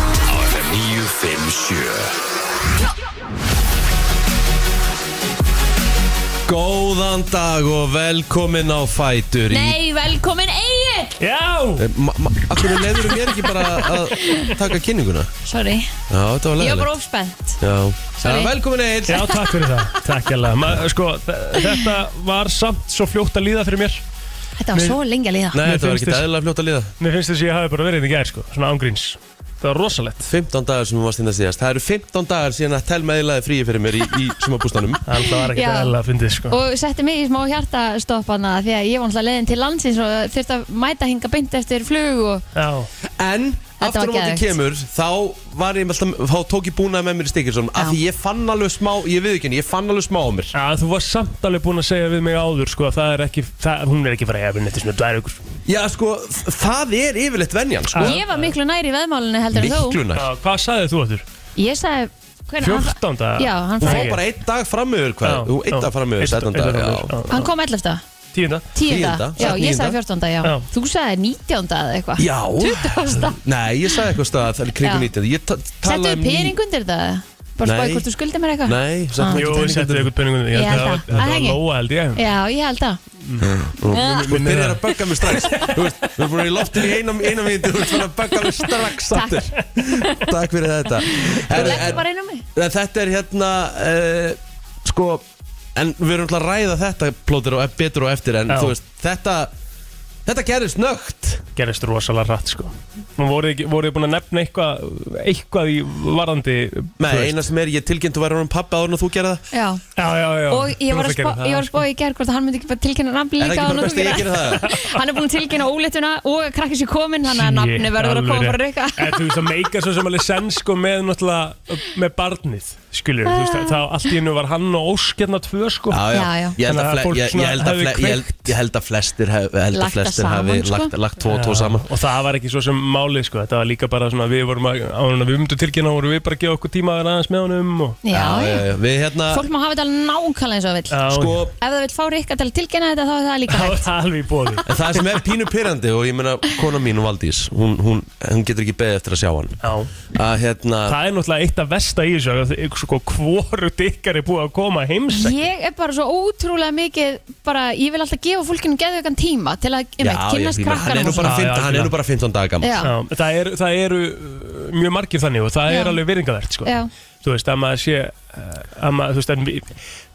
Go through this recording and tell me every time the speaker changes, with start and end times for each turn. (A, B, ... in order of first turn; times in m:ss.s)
0:00.3-0:02.1 A
0:06.5-0:09.8 A
0:09.5-0:11.2 B
0:11.2-0:11.8 C
0:11.8-0:15.3 A
0:12.8-0:14.6 B
0:15.5-0:15.9 B
0:16.1-0:16.9 A
0:16.6-0:17.6 B
0:17.6-0:19.3 A
0:18.2-0:18.5 B
0:19.1-0:24.0 C
0:24.6-0:25.8 B
0:24.7-0:25.0 C
0:25.5-0:26.9 A
0:25.7-0:26.2 C
0:27.0-0:30.3 C
0:30.2-0:35.0 A
0:35.0-0:36.6 C
0:35.4-0:36.0 B
0:36.5-0:42.4 B
0:42.6-0:42.9 C
0:43.2-0:50.5 A
0:43.8-0:44.5 B
0:50.5-0:55.4 C
0:55.7-0:58.2 A
0:57.9-0:58.5 C
0:58.0-1:00.0 B
0:59.5-1:00.3 A
1:00.1-1:01.2 C
1:01.6-1:04.2 B
1:02.6-1:04.2 C
1:03.8-1:07.1 A
1:05.2-1:07.5 C
1:07.3-1:08.0 B
1:08.3-1:08.7 C
1:08.8-1:14.0 B
1:08.8-1:10.0 A
1:09.4-1:09.6 C
1:12.2-1:16.6 A
1:14.8-1:15.1 B
1:15.8-1:19.6 B
1:17.6-1:18.1 A
1:18.6-1:20.1 A
1:19.3-1:22.2 C
1:20.5-1:21.6 B
1:20.9-1:21.3 A
1:22.1-1:23.0 B
1:23.2-1:26.1 C
1:23.4-1:32.0 A
1:23.9-1:24.4 B
1:29.1-1:30.2 B
1:31.1-1:32.4 B
1:31.5-1:32.0 C
1:32.6-1:39.5 A
1:38.5-1:38.8 C
1:40.2-1:41.4 A
1:41.6-1:47.4 C
1:47.0-1:49.4 A
1:49.5-1:49.8 B
1:50.0-1:51.8 C
1:50.5-1:59.3 B
1:53.4-1:54.7 A
1:54.5-1:55.0 C
1:57.2-2:06.0 C
2:03.2-2:03.8 B
2:05.9-2:11.9 A
2:06.1-2:06.6 B
2:06.6-2:08.5 C
2:09.7-2:10.9 B
2:11.3-2:18.0 C
2:18.0-2:18.7 B
2:18.1-2:19.4 A
2:19.3-2:23.9 B
2:20.9-2:21.4 C
2:21.1-2:21.5 A
2:23.5-2:24.6 C
2:24.7-2:29.6 A
2:29.6-2:29.9 C
2:30.1-2:31.0 A
2:30.8-2:35.4 C
2:35.1-2:41.4 B
2:40.0-2:42.8 A
2:41.2-2:41.9 C
2:42.6-2:42.9 B
2:42.8-2:46.7 C
2:45.7-2:46.0 B
2:46.6-2:46.9 B
2:47.2-2:49.7 C